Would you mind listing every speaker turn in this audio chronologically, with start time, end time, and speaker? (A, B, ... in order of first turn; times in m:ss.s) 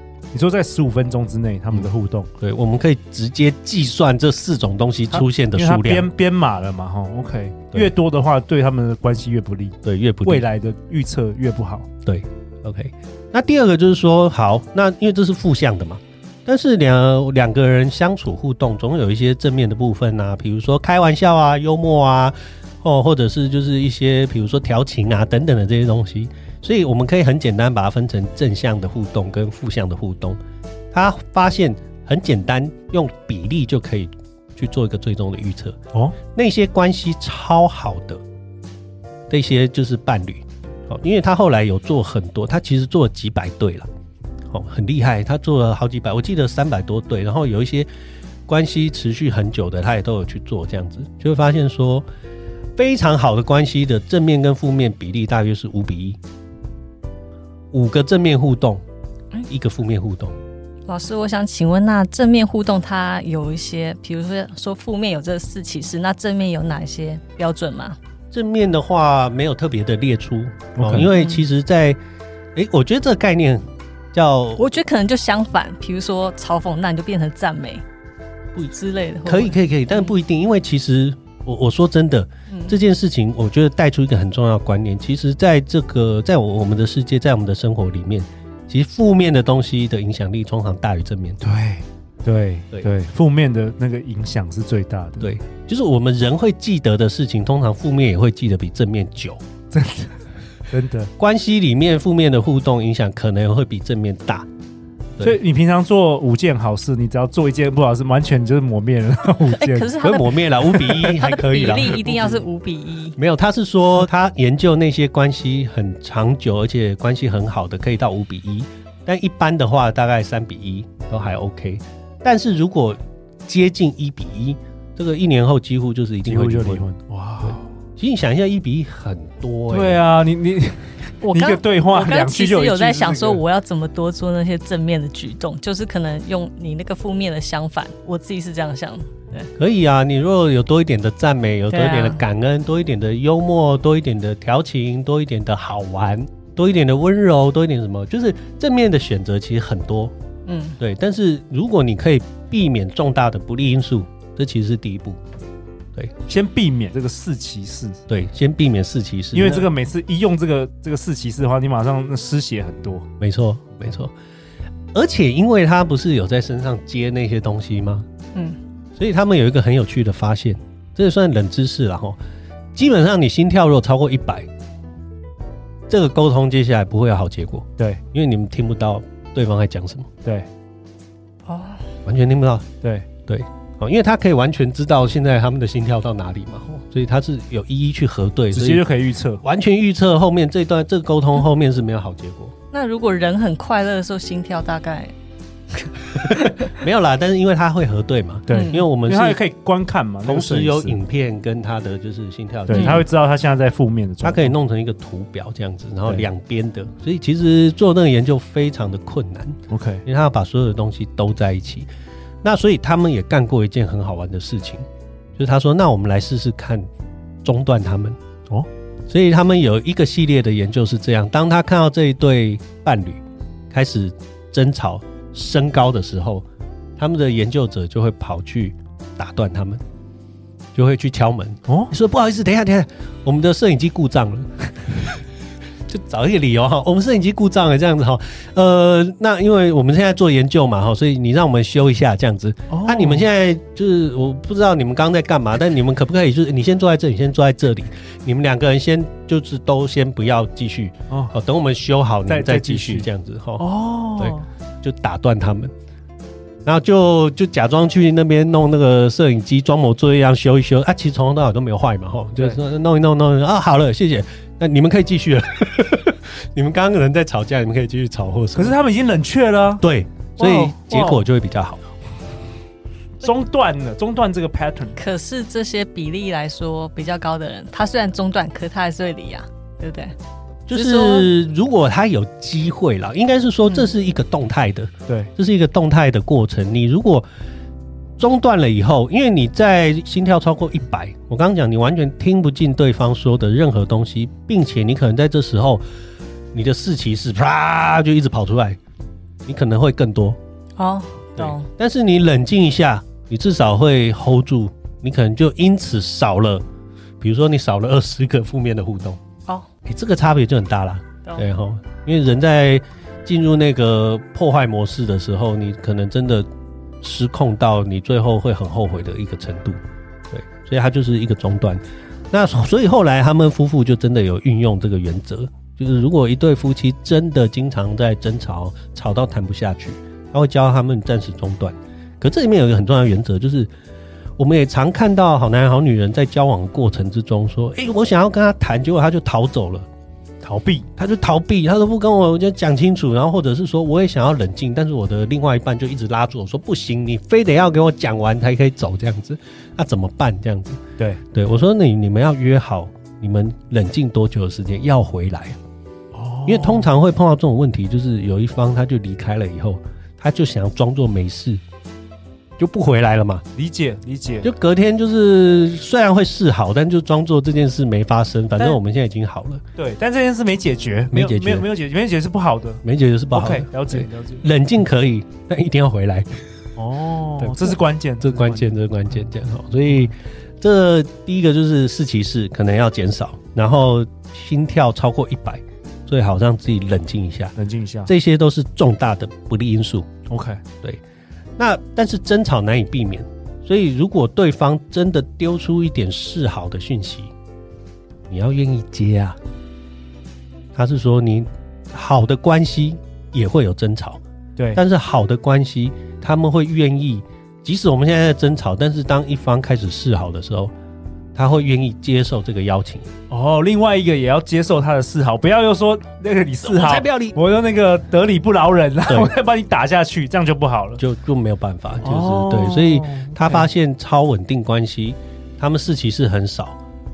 0:00.3-0:02.3 A
0:01.7-0:06.1 B
0:05.1-0:11.9 A
0:09.8-0:10.4 B
0:12.0-0:30.4 B
0:30.9-0:35.8 B
0:36.3-0:38.2 B
0:39.3-0:43.9 B
0:44.5-0:47.9 B
0:48.5-0:52.0 B
0:52.8-0:56.2 B
0:57.7-0:58.8 B
0:59.5-1:00.4 B
1:00.9-1:08.0 C
1:08.3-1:12.0 B
1:10.8-1:11.1 A
1:11.2-1:11.4 C
1:12.5-1:14.6 B
1:14.6-1:17.8 C
1:18.7-1:20.1 C
1:19.2-1:31.4 B
1:22.5-1:22.8 C
1:31.4-1:35.3 A
1:35.2-1:39.4 B
1:39.7-1:40.1 A
1:40.7-1:41.1 A
1:41.2-1:44.5 B
1:45.2-1:49.9 A
1:49.4-1:53.2 C
1:50.0-1:52.4 B
1:53.2-2:06.8 B
2:06.2-2:07.7 A
2:07.4-2:10.0 B
2:09.7-2:13.4 A
2:11.2-2:19.5 C
2:19.6-2:30.1 B
2:21.7-2:22.2 C
2:30.5-2:30.8 C
2:30.8-2:35.2 B
2:36.3-2:38.0 A
2:38.1-2:39.7 B
2:39.3-2:43.1 A
2:43.2-2:44.1 B
2:44.9-2:48.1 B
2:49.0-2:52.2 B
2:52.7-2:54.5 B
2:55.9-3:00.1 B
3:01.4-3:01.8 C
3:02.0-3:02.7 B
3:03.3-3:08.8 B
3:08.5-3:09.4 A
3:09.4-3:12.5 B
3:12.7-3:15.1 C
3:15.7-3:16.7 C
3:16.2-3:19.4 B
3:18.5-3:21.0 A
3:18.5-3:18.8 C
3:20.2-3:23.0 B
3:22.7-3:24.5 A
3:22.7-3:23.0 C
3:24.2-3:31.9 B
3:29.7-3:30.0 A
3:32.4-3:36.9 B
3:37.4-3:38.2 B
3:39.1-3:46.4 B
3:47.0-3:49.8 B
3:50.7-3:55.2 B
3:55.9-4:15.7 B
4:02.7-4:03.2 A
4:12.3-4:13.1 A
4:13.6-4:14.4 A
4:16.6-4:28.8 B
4:28.6-4:29.8 A
4:29.8-4:31.8 B
4:30.4-4:31.2 A
4:33.2-4:35.0 A
4:35.0-4:40.1 C
4:40.7-4:47.2 B
4:40.7-4:41.3 C
4:48.2-4:55.8 B
4:56.5-4:58.8 B
4:59.4-5:00.4 B
5:00.8-5:01.7 C
5:01.4-5:06.6 B
5:07.2-5:09.2 B
5:09.8-5:16.5 B
5:17.0-5:33.7 B
5:34.4-5:39.9 B
5:40.4-5:40.9 A
5:41.0-5:55.6 B
5:56.1-5:56.9 A
5:56.4-6:01.6 B
6:02.6-6:03.4 B
6:03.6-6:04.5 A
6:04.4-6:09.6 B
6:09.8-6:14.4 A
6:11.1-6:11.6 B
6:12.8-6:16.4 B
6:16.8-6:18.7 A
6:17.4-6:27.5 B
6:27.6-6:28.1 A
6:28.1-6:30.1 B
6:30.3-6:30.6 A
6:31.6-6:37.3 B
6:38.3-6:39.4 B
6:40.7-6:44.2 B
6:44.7-6:50.7 B
6:51.3-6:53.1 B
6:53.3-7:01.0 A
6:56.6-6:57.4 B
7:01.0-7:06.8 B
7:02.0-7:03.7 A